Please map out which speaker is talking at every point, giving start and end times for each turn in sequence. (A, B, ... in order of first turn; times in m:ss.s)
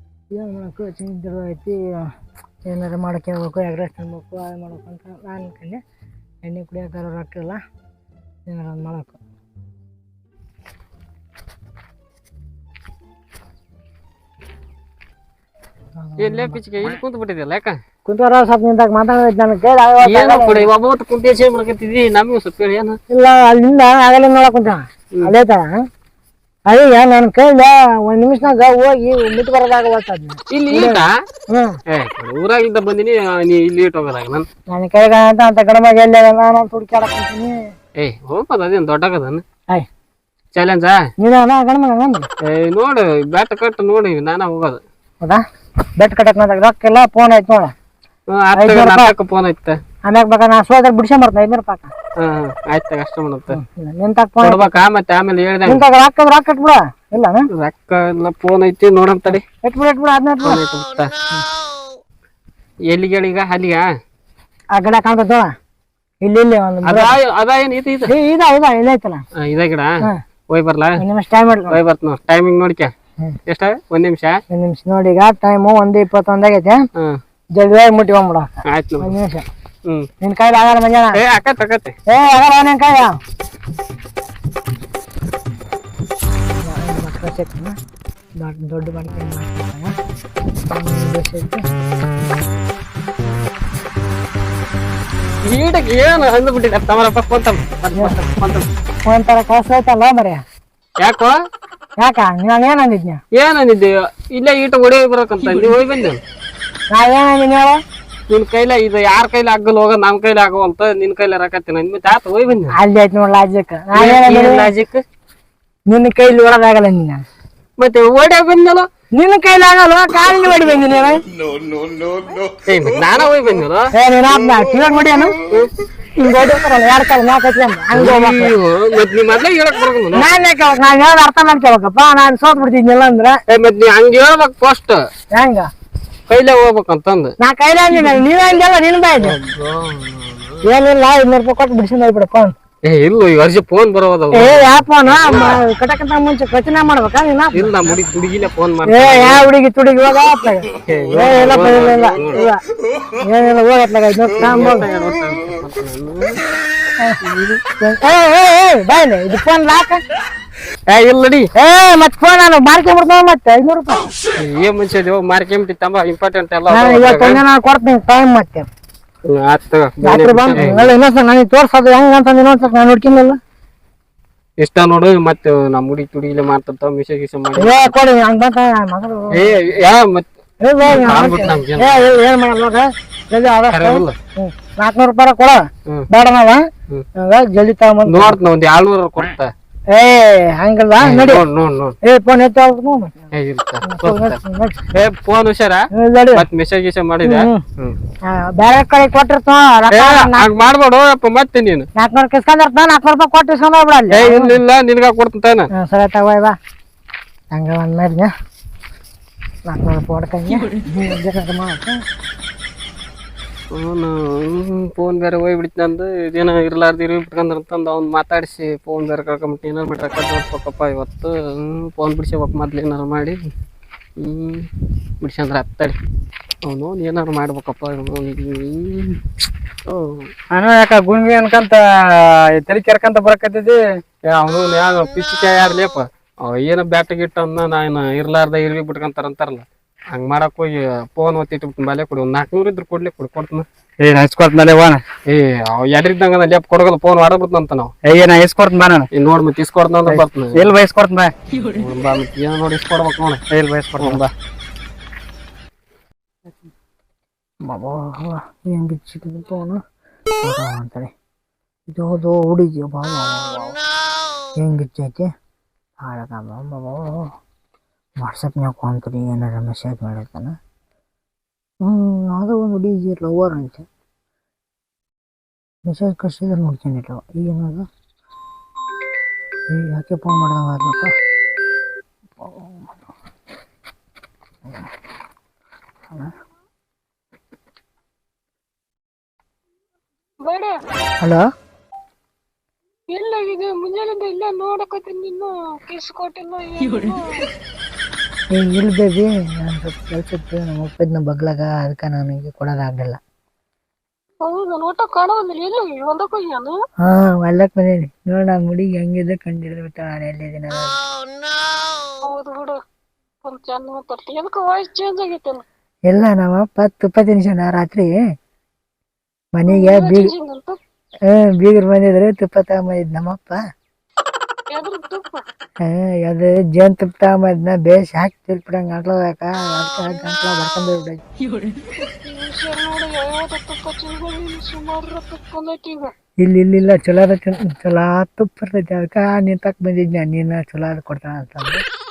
0:00.3-0:02.1 A
0:02.7-0:05.8 A
0:06.4-0:07.6 A
0:08.5-0:09.2 A
0:16.0-0:16.6 A
0:16.2-0:17.8 B
0:18.1-0:20.7 A
0:20.0-0:23.0 B
0:23.1-0:25.8 A
0:26.7-0:31.8 A
0:30.5-0:31.1 B
0:31.9-0:34.5 B
0:34.7-0:37.6 A
0:38.0-0:39.4 B
0:40.6-0:41.0 B
0:41.2-0:42.3 A
0:42.5-0:44.8 B
0:46.0-0:47.7 A
0:48.3-0:49.8 B
0:48.6-0:49.1 A
0:50.0-0:51.9 A
0:52.2-0:53.6 B
0:53.5-0:54.8 A
0:54.4-0:55.8 B
0:55.7-0:57.5 A
0:57.5-0:59.4 B
0:59.6-1:00.6 A
1:00.4-1:01.1 B
1:02.9-1:03.8 B
1:04.7-1:05.5 A
1:06.2-1:07.2 A
1:06.8-1:08.1 B
1:08.1-1:09.2 A
1:09.4-1:09.9 B
1:10.5-1:11.0 B
1:11.0-1:11.8 A
1:11.7-1:12.9 B
1:13.5-1:14.4 B
1:14.5-1:16.8 A
1:17.6-1:19.4 A
1:18.7-1:19.1 B
1:20.2-1:21.2 A
1:21.1-1:21.9 B
1:22.1-1:23.2 A
1:26.6-1:27.8 A
1:28.4-1:29.9 A
1:30.7-1:31.6 A
1:35.4-1:38.7 B
1:39.1-1:40.4 A
1:41.0-1:41.4 B
1:42.0-1:43.2 A
1:43.3-1:46.2 B
1:46.9-1:47.8 A
1:48.3-1:52.7 B
1:52.7-1:54.7 A
1:53.9-1:55.0 B
1:55.9-1:57.2 A
1:57.8-1:58.9 B
1:59.1-2:01.2 A
2:02.7-2:03.9 B
2:03.9-2:05.3 A
2:06.2-2:08.5 A
2:07.9-2:10.3 B
2:10.1-2:13.4 A
2:13.5-2:15.0 B
2:15.3-2:15.7 A
2:16.3-2:17.3 B
2:17.4-2:19.4 A
2:17.9-2:18.2 B
2:19.2-2:20.6 B
2:20.7-2:22.5 A
2:22.8-2:25.6 B
2:24.3-2:27.8 A
2:27.5-2:29.4 B
2:28.9-2:32.6 A
2:30.9-2:32.4 B
2:33.2-2:34.9 A
2:34.4-2:36.4 B
2:37.2-2:37.6 B
2:37.8-2:40.0 A
2:40.9-2:41.5 B
2:41.6-2:44.1 A
2:44.4-2:47.4 B
2:46.7-2:48.7 A
2:49.3-2:50.9 B
2:50.0-2:53.4 A
2:54.6-2:57.9 B
2:57.6-2:59.5 A
2:59.3-3:00.3 B
3:00.6-3:06.6 A
3:00.8-3:02.0 B
3:03.7-3:04.2 B
3:07.2-3:08.4 A
3:08.0-3:09.5 B
3:09.9-3:11.4 A
3:11.0-3:12.0 B
3:12.0-3:13.1 A
3:13.4-3:14.4 B
3:13.8-3:14.8 A
3:14.9-3:18.0 B
3:16.0-3:16.4 A
3:17.2-3:17.6 A
3:18.3-3:20.5 A
3:19.9-3:21.9 B
3:22.0-3:24.6 A
3:24.1-3:25.7 B
3:25.8-3:26.6 A
3:27.5-3:28.3 A
3:29.7-3:32.0 A
3:33.7-3:43.4 B
3:44.2-3:44.7 B
3:45.2-3:46.0 B
3:46.6-3:49.2 B
3:49.9-3:50.3 B
3:50.5-3:53.8 C
3:54.3-4:03.6 B
4:04.0-4:05.0 C
4:05.3-4:07.9 B
4:08.0-4:09.1 C
4:09.1-4:10.7 B
4:10.1-4:11.3 C
4:11.7-4:13.4 B
4:13.5-4:14.2 C
4:14.0-4:14.3 B
4:17.7-4:19.8 A
4:20.4-4:21.1 A
4:21.9-4:23.7 A
4:24.6-4:25.3 A
4:26.0-4:27.3 A
4:28.2-4:30.6 A
4:31.8-4:33.9 A
4:35.9-4:37.8 A
4:39.7-4:41.1 A
4:50.4-4:50.8 D
4:53.1-4:57.4 D
4:58.5-5:03.2 A
5:04.4-5:06.8 D
5:07.1-5:11.0 A
5:12.2-5:12.8 D
5:13.4-5:15.6 D
5:16.1-5:18.1 A
5:19.6-5:20.3 A
5:19.7-5:20.8 D
5:21.3-5:23.6 A
5:24.7-5:25.4 D
5:25.8-5:31.2 A
5:32.0-5:36.1 D
5:36.4-5:41.8 A